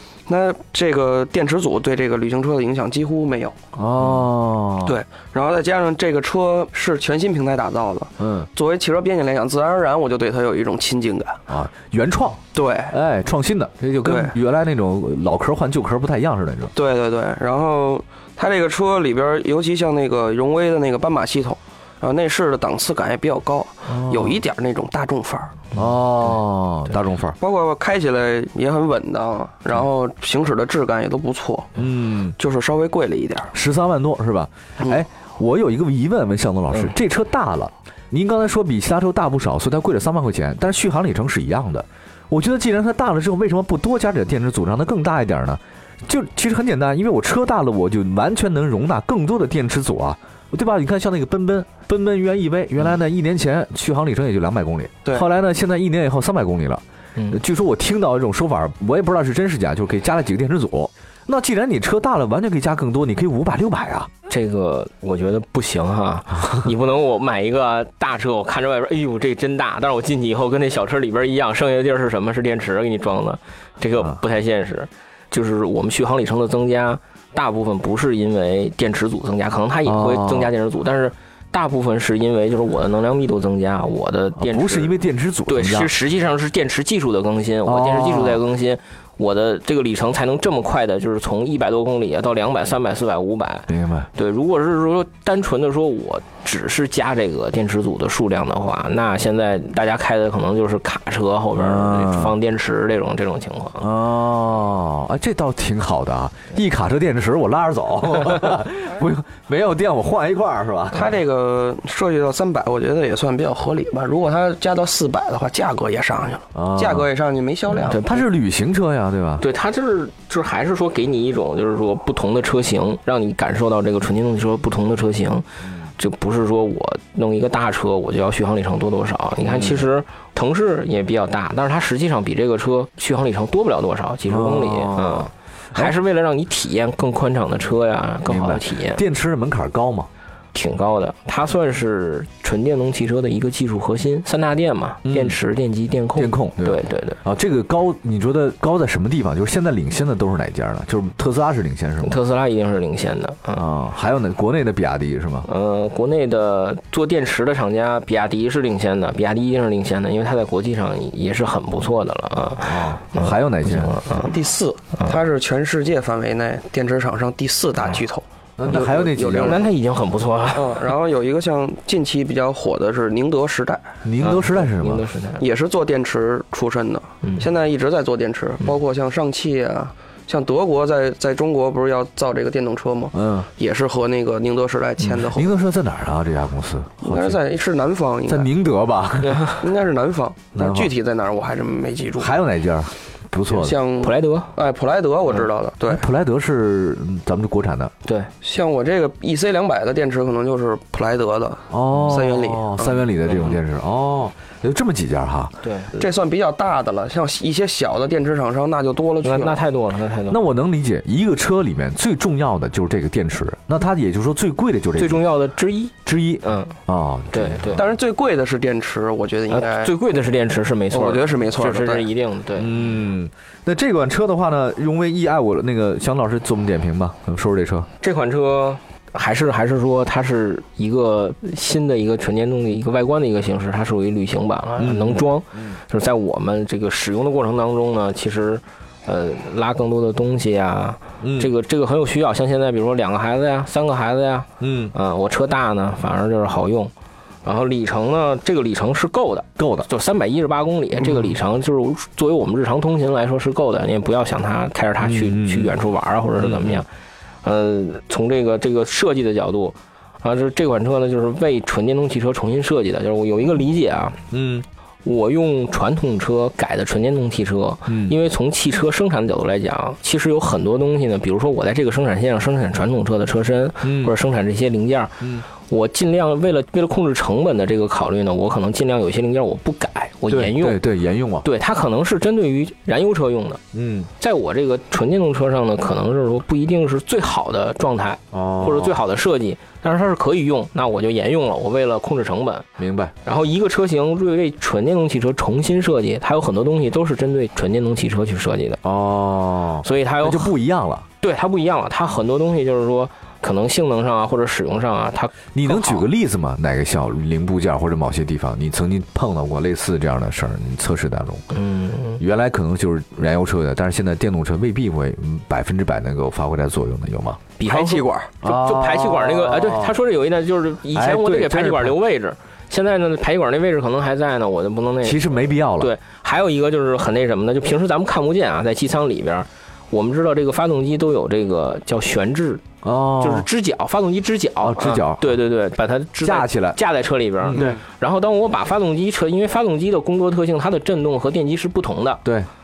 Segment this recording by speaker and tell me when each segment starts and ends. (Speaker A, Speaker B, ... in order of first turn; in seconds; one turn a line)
Speaker A: 0.3-3.5
Speaker B: 3.7-5.0
Speaker A: 4.8-11.4
Speaker B: 8.2-8.5
Speaker B: 11.5-16.7
Speaker A: 12.5-12.9
Speaker A: 14.0-14.3
Speaker A: 16.7-25.6
Speaker B: 23.9-24.4
Speaker B: 25.7-27.4
Speaker A: 27.4-31.8
Speaker B: 31.8-32.4
Speaker A: 32.4-33.5
Speaker B: 33.5-64.1
Speaker C: 64.3-84.9
Speaker B: 79.8-80.5
Speaker B: 84.4-85.9
Speaker C: 85.5-103.8
Speaker B: 87.6-88.4
Speaker B: 93.7-94.1
Speaker B: 101.5-102.3
Speaker B: 103.8-111.1
Speaker A: 110.9-118.2
Speaker B: 116.5-117.0
Speaker C: 117.7-118.1
Speaker B: 117.9-119.4
Speaker C: 119.4-125.4
Speaker C: 126.0-139.0
Speaker B: 129.4-129.8
Speaker B: 134.3-135.9
Speaker B: 138.2-140.1
Speaker C: 140.5-147.2
Speaker B: 145.0-145.4
Speaker B: 146.2-152.2
Speaker C: 152.0-153.6
Speaker B: 153.5-155.5
Speaker C: 155.4-164.3
Speaker B: 162.6-163.9
Speaker A: 164.2-169.7
Speaker B: 168.6-169.6
Speaker C: 168.7-170.9
Speaker A: 170.6-173.9
Speaker B: 174.0-175.0
Speaker C: 174.2-175.4
Speaker A: 175.4-185.5
Speaker B: 183.1-183.5
Speaker B: 185.2-187.4
Speaker A: 187.0-188.5
Speaker B: 188.3-189.7
Speaker A: 189.6-192.3
Speaker B: 190.5-190.9
Speaker B: 192.2-193.8
Speaker A: 193.5-196.1
Speaker C: 194.0-194.5
Speaker B: 195.8-197.9
Speaker C: 198.0-198.3
Speaker A: 198.4-203.0
Speaker B: 201.7-205.5
Speaker C: 201.9-202.2
Speaker C: 203.3-203.6
Speaker C: 205.6-205.9
Speaker A: 205.9-209.6
Speaker C: 209.2-210.4
Speaker B: 210.3-215.2
Speaker C: 214.9-216.7
Speaker B: 216.0-217.8
Speaker C: 217.3-217.8
Speaker A: 217.8-219.9
Speaker C: 219.5-222.9
Speaker A: 220.9-222.1
Speaker B: 222.6-227.9
Speaker C: 228.0-246.9
Speaker B: 234.8-235.8
Speaker B: 241.2-241.5
Speaker B: 244.6-244.9
Speaker C: 247.4-256.9
Speaker B: 249.6-249.9
Speaker B: 255.0-255.8
Speaker B: 256.4-256.8
Speaker C: 257.4-264.2
Speaker B: 264.3-264.6
Speaker C: 265.0-280.8
Speaker B: 267.9-268.1
Speaker B: 273.8-274.1
Speaker B: 275.2-275.5
Speaker B: 280.3-281.4
Speaker C: 281.4-283.6
Speaker B: 283.7-284.1
Speaker C: 284.2-292.6
Speaker B: 288.3-289.0
Speaker B: 292.8-293.1
Speaker C: 293.2-298.8
Speaker B: 298.8-301.1
Speaker C: 299.8-300.6
Speaker C: 301.2-306.1
Speaker B: 305.5-311.4
Speaker C: 311.5-312.2
Speaker B: 312.2-317.5
Speaker C: 317.6-332.6
Speaker A: 317.6-318.4
Speaker B: 318.4-319.9
Speaker B: 320.9-322.0
Speaker B: 325.0-325.9
Speaker B: 332.8-333.5
Speaker C: 333.2-342.2
Speaker B: 334.6-335.4
Speaker B: 336.2-336.8
Speaker B: 337.4-337.8